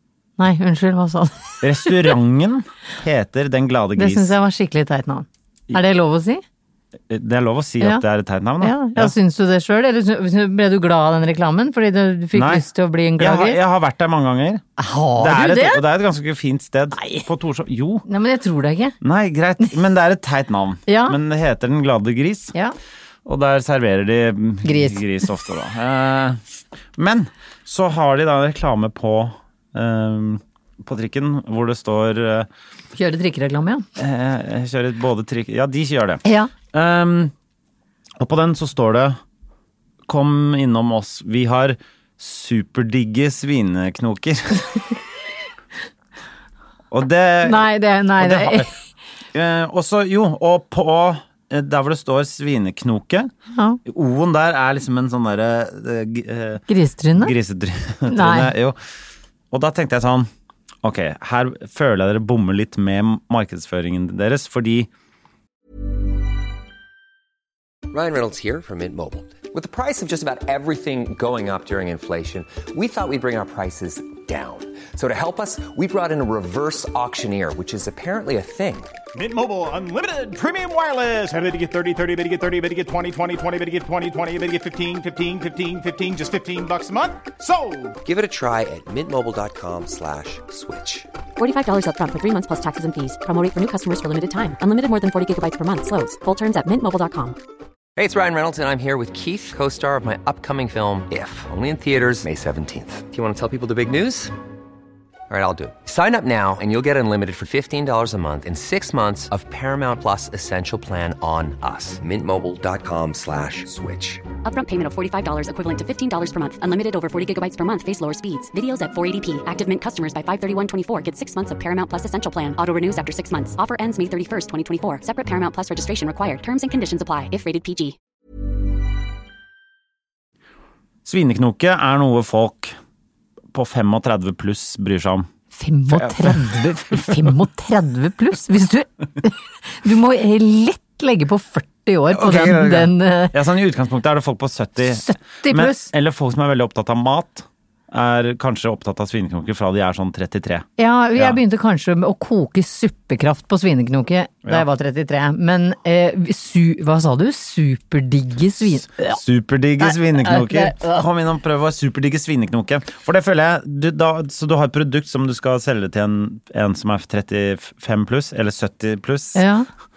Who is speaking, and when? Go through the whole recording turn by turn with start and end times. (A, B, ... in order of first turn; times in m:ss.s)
0:00.4-0:02.1 A
0:01.6-0:04.3 B
0:04.0-0:06.4 A
0:07.1-0:09.1 B
0:08.6-0:13.6 A
0:12.3-0:12.7 B
0:13.2-0:14.6 B
0:14.8-0:15.8 A
0:15.2-0:18.0 B
0:16.9-0:17.2 A
0:18.0-0:18.9 A
0:19.0-0:22.5 B
0:20.9-0:21.2 A
0:23.2-0:26.4 B
0:24.6-0:25.3 A
0:27.0-0:32.5 B
0:33.0-0:33.8 A
0:34.0-0:37.3 B
0:36.2-0:36.5 A
0:38.2-0:39.2 B
0:40.1-0:44.7 B
0:46.9-0:48.7 B
0:47.4-0:48.7 A
0:49.3-0:53.3 B
0:53.5-0:53.8 A
0:53.8-0:56.6 B
0:56.7-0:57.3 A
0:57.1-0:58.8 B
0:58.1-0:58.5 A
0:59.5-1:00.3 B
1:00.8-1:04.9 B
1:07.9-1:18.9 C
1:19.1-1:28.0 D
1:28.0-1:31.1 C
1:31.4-1:37.4 E
1:38.0-1:44.3 C
1:45.3-1:54.2 C
1:54.4-2:08.0 E
2:11.0-2:12.8 B
2:13.5-2:15.3 B
2:15.5-2:23.4 A
2:15.9-2:17.4 B
2:22.1-2:31.4 B
2:24.8-2:25.9 A
2:30.8-2:39.2 A
2:39.0-2:49.4 B
2:39.8-2:41.1 A
2:49.3-2:49.7 A